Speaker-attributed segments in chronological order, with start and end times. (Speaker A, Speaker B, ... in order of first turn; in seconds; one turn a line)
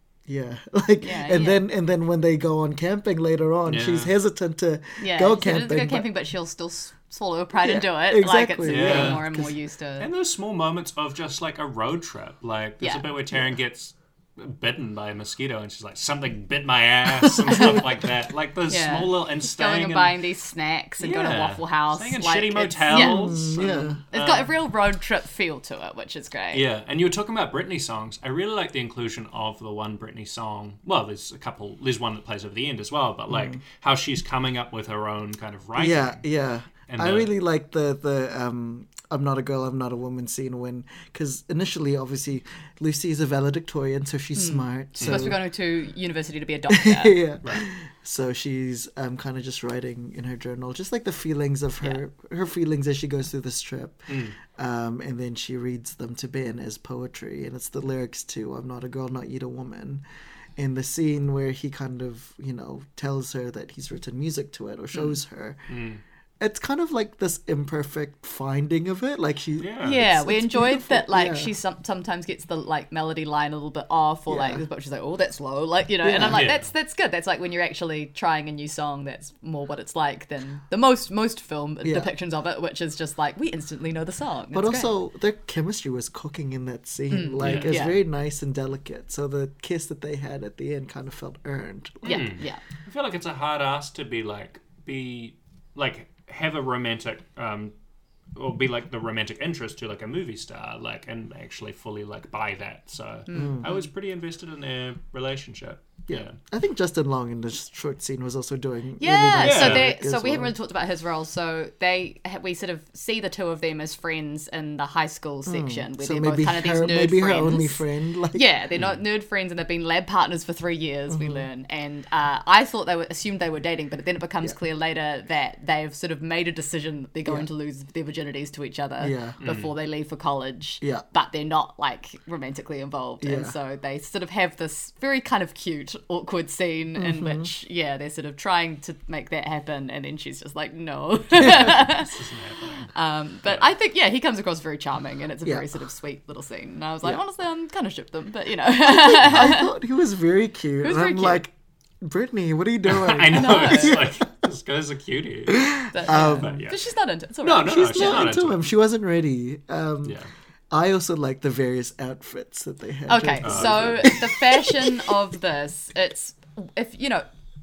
Speaker A: 0.3-6.1
Speaker B: 1.0-1.6
Speaker C: 3.6-4.1
Speaker B: 5.0-10.1
Speaker A: 7.6-9.5
Speaker C: 8.6-9.3
Speaker C: 10.0-20.2
Speaker B: 12.8-13.1
Speaker A: 17.2-17.8
Speaker B: 18.7-26.6
Speaker C: 21.0-24.5
Speaker A: 22.9-24.0
Speaker C: 26.5-36.2
Speaker A: 33.3-33.6
Speaker A: 35.8-45.4
Speaker C: 36.9-37.3
Speaker B: 44.4-47.2
Speaker C: 45.0-45.3
Speaker A: 46.7-60.0
Speaker C: 54.1-54.4
Speaker A: 60.5-65.6
Speaker C: 65.7-66.0
Speaker A: 66.4-71.5
Speaker C: 69.6-70.0
Speaker B: 69.8-84.9
Speaker A: 74.3-74.6
Speaker A: 76.0-76.4
Speaker C: 76.3-76.7
Speaker A: 81.8-82.1
Speaker A: 84.5-92.2
Speaker B: 87.1-88.0
Speaker C: 87.4-87.8
Speaker C: 92.0-97.7
Speaker B: 92.0-92.6
Speaker C: 98.3-106.4
Speaker B: 103.3-103.9
Speaker A: 103.3-103.6
Speaker A: 106.1-110.5
Speaker B: 109.0-142.1
Speaker C: 109.4-109.9
Speaker A: 115.5-118.4
Speaker A: 121.1-121.4
Speaker A: 129.0-129.4
Speaker C: 129.4-129.7
Speaker A: 133.2-133.5
Speaker A: 137.0-137.5
Speaker C: 141.4-142.9
Speaker A: 141.4-141.8
Speaker B: 142.9-149.7
Speaker A: 145.4-145.7
Speaker A: 148.8-154.2
Speaker B: 150.8-151.4
Speaker C: 152.8-156.8
Speaker B: 153.3-154.0
Speaker A: 155.5-156.6
Speaker B: 155.9-158.3
Speaker C: 157.4-158.7
Speaker A: 157.7-160.2
Speaker C: 160.0-160.3
Speaker A: 160.7-165.1
Speaker B: 163.1-167.2
Speaker C: 163.4-164.2